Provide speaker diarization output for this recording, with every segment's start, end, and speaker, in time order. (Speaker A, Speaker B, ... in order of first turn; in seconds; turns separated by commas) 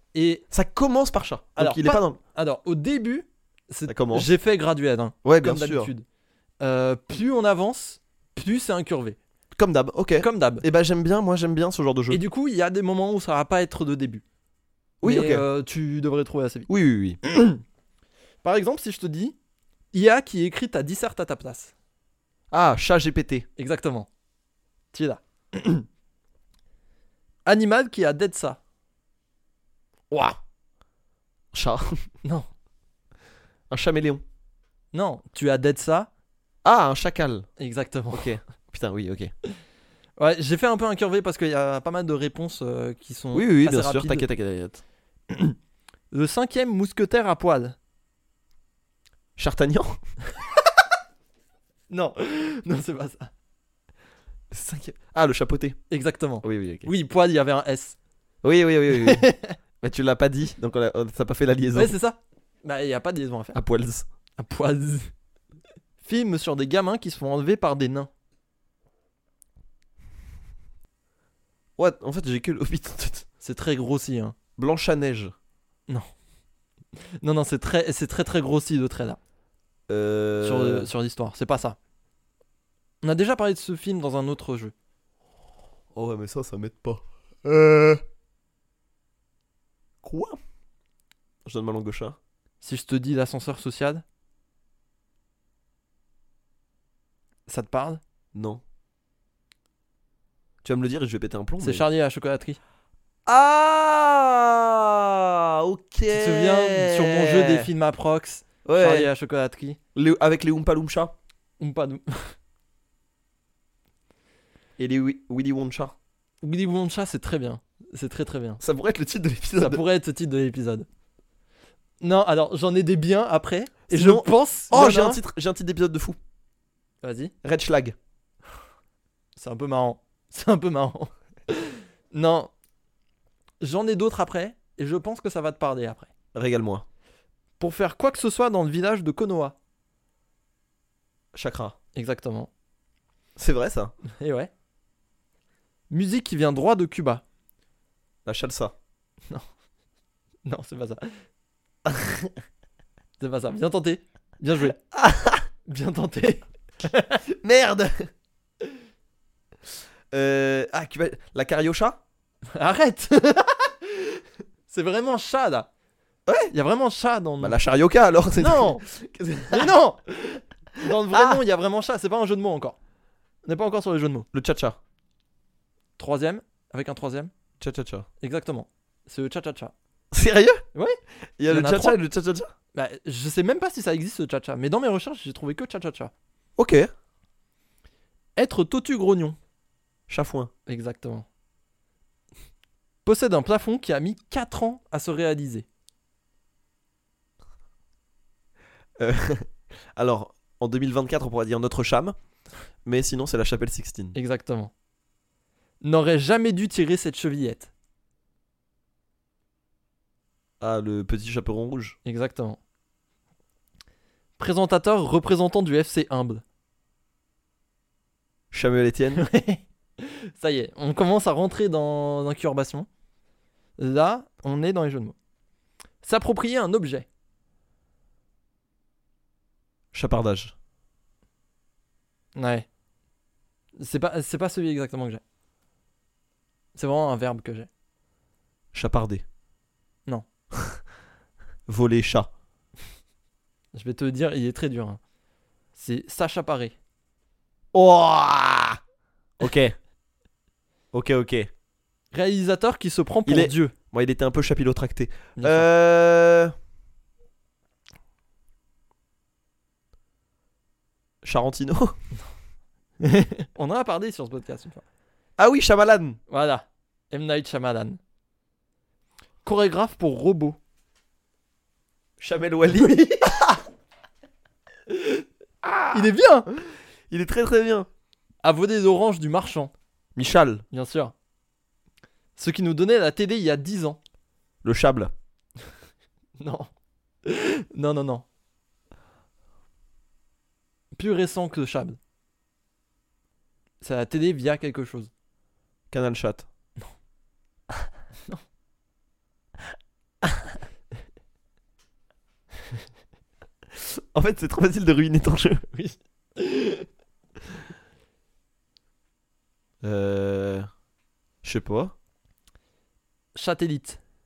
Speaker A: 0.1-0.4, Speaker B: 0.5-2.2, Speaker A: 1.6-6.0, Speaker B: 3.9-4.3, Speaker B: 5.2-5.9, Speaker A: 6.6-9.2, Speaker B: 9.5-12.2, Speaker A: 10.2-10.6, Speaker A: 12.1-14.2, Speaker B: 15.0-15.4, Speaker A: 15.0-16.7, Speaker B: 16.7-17.2, Speaker A: 17.2-17.6, Speaker A: 18.4-19.3, Speaker A: 19.9-21.7, Speaker B: 22.5-23.4, Speaker A: 23.6-24.1, Speaker A: 24.9-25.9, Speaker A: 27.4-28.6, Speaker B: 30.1-30.4, Speaker B: 31.5-32.0, Speaker B: 33.7-34.2, Speaker A: 34.9-36.1, Speaker B: 36.6-37.5, Speaker A: 37.6-38.3, Speaker B: 38.1-39.3, Speaker A: 40.2-44.3, Speaker B: 43.3-44.8, Speaker A: 45.3-45.6, Speaker A: 46.1-47.8, Speaker B: 49.4-50.0, Speaker A: 51.9-53.3, Speaker B: 54.5-55.8, Speaker A: 55.9-58.0, Speaker B: 56.4-56.9, Speaker B: 58.4-59.3, Speaker A: 58.9-59.5, Speaker B: 59.8-61.9, Speaker A: 61.7-63.6, Speaker B: 63.5-64.1, Speaker A: 64.4-65.1, Speaker A: 66.0-68.1, Speaker B: 71.8-73.3, Speaker A: 73.4-74.3, Speaker B: 74.6-75.3, Speaker A: 77.2-79.2, Speaker B: 79.9-80.9, Speaker A: 80.4-81.8, Speaker A: 83.0-84.7, Speaker B: 85.9-88.0, Speaker B: 90.0-90.4, Speaker B: 91.4-92.2, Speaker A: 92.6-94.0, Speaker A: 97.5-98.0, Speaker B: 98.3-98.6, Speaker B: 100.6-101.8, Speaker A: 101.6-102.6, Speaker B: 103.2-107.7, Speaker A: 106.1-109.8, Speaker B: 108.6-109.1, Speaker B: 109.9-111.1, Speaker A: 111.6-112.3, Speaker B: 114.8-115.9, Speaker A: 116.4-118.6, Speaker B: 118.6-119.8, Speaker A: 119.6-120.9, Speaker A: 122.0-125.2, Speaker B: 123.9-126.2, Speaker A: 127.0-127.3, Speaker B: 127.4-128.0, Speaker A: 129.4-132.5, Speaker A: 133.6-136.1, Speaker B: 136.3-136.8, Speaker A: 137.6-139.6, Speaker B: 141.3-141.8, Speaker A: 141.9-142.5, Speaker B: 143.4-143.9, Speaker A: 144.1-144.5, Speaker A: 145.9-147.2, Speaker B: 148.2-148.7, Speaker A: 150.4-151.1, Speaker B: 151.8-152.3, Speaker A: 153.2-154.8, Speaker B: 154.9-155.4, Speaker A: 155.7-157.2, Speaker B: 157.3-158.1, Speaker B: 160.1-162.0, Speaker A: 162.5-165.7, Speaker B: 166.3-166.5, Speaker A: 166.5-167.6, Speaker B: 167.4-169.7, Speaker A: 168.4-168.8, Speaker A: 169.5-172.8, Speaker B: 170.8-171.4, Speaker A: 173.4-174.3, Speaker B: 174.3-174.8, Speaker A: 176.0-177.3, Speaker B: 177.6-178.1, Speaker A: 178.2-179.7, Speaker B: 180.1-180.6, Speaker B: 181.4-182.5, Speaker A: 181.5-182.0, Speaker A: 182.7-186.1, Speaker B: 186.6-186.9, Speaker A: 188.3-189.4, Speaker B: 190.1-190.5, Speaker A: 190.7-191.2, Speaker A: 193.0-195.7, Speaker B: 199.0-202.1, Speaker B: 202.8-204.2, Speaker A: 204.1-204.7, Speaker A: 205.8-207.7, Speaker B: 210.6-212.0, Speaker A: 212.0-212.6, Speaker A: 214.4-216.4, Speaker B: 218.5-219.2, Speaker A: 219.2-222.9, Speaker A: 223.8-225.1, Speaker A: 226.0-227.1, Speaker B: 229.9-230.5, Speaker A: 232.3-232.7, Speaker A: 233.8-235.2, Speaker A: 236.7-237.7, Speaker B: 238.7-239.2, Speaker B: 241.7-242.3, Speaker A: 243.7-245.0, Speaker A: 245.7-246.8, Speaker B: 247.7-248.8, Speaker B: 249.4-249.8, Speaker B: 250.9-251.5, Speaker A: 252.1-253.7, Speaker B: 253.2-256.5, Speaker A: 255.4-255.7, Speaker B: 261.2-261.9, Speaker A: 263.0-264.8, Speaker B: 265.4-266.2, Speaker A: 266.3-268.0, Speaker A: 269.4-270.6, Speaker B: 272.2-273.6, Speaker A: 274.9-275.2, Speaker B: 275.6-276.1, Speaker A: 275.9-276.5, Speaker B: 277.1-277.9, Speaker A: 278.4-279.7, Speaker B: 280.1-280.6, Speaker A: 280.7-281.1, Speaker A: 282.4-284.0, Speaker B: 284.6-285.1, Speaker A: 286.4-286.7, Speaker A: 287.2-288.2, Speaker A: 290.9-292.0, Speaker A: 293.8-295.1, Speaker B: 295.9-296.5, Speaker B: 303.8-305.7, Speaker A: 305.8-306.9, Speaker B: 309.8-310.7, Speaker B: 311.4-311.9, Speaker A: 313.3-314.0